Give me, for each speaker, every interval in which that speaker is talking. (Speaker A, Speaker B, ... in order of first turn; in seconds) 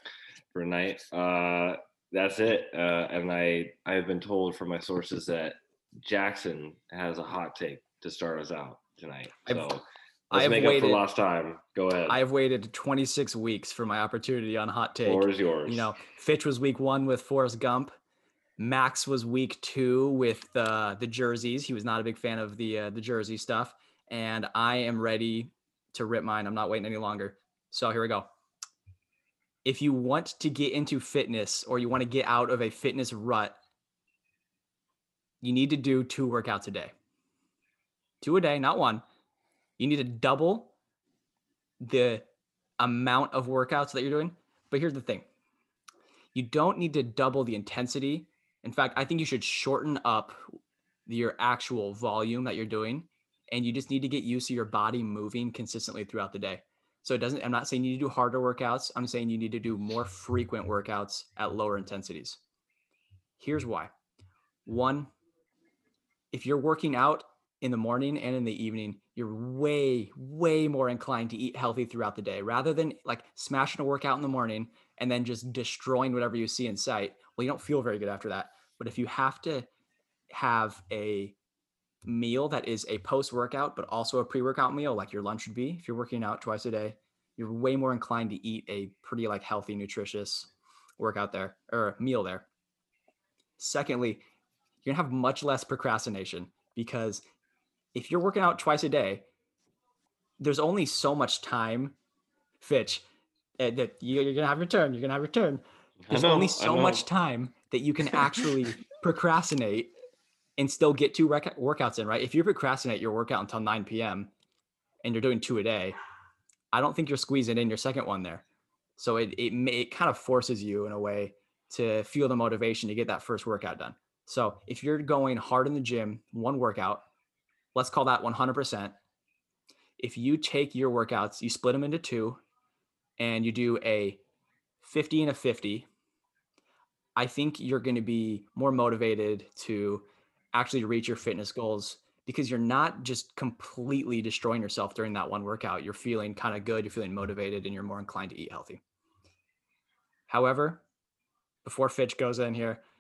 Speaker A: 0.5-9.8, 10.3-12.2, 15.1-15.9, 106.0-107.1
Speaker B: 10.3-11.0, 12.1-17.9, 18.6-28.3, 29.6-33.6, 35.4-36.9, 38.2-39.0, 39.8-40.7, 41.8-42.3, 42.8-45.3, 46.3-50.4, 51.1-62.4, 63.4-63.9, 64.7-65.1, 66.3-79.7, 80.3-81.3, 82.0-92.5, 93.6-94.2, 94.8-97.2, 97.9-99.3, 100.4-102.0, 102.6-103.0, 103.6-109.9, 110.6-114.3, 115.0-116.0, 116.7-118.4, 119.0-127.0, 127.8-128.9, 130.0-132.4, 133.2-134.2, 134.8-135.9, 137.2-148.8, 150.3-150.8, 151.6-152.8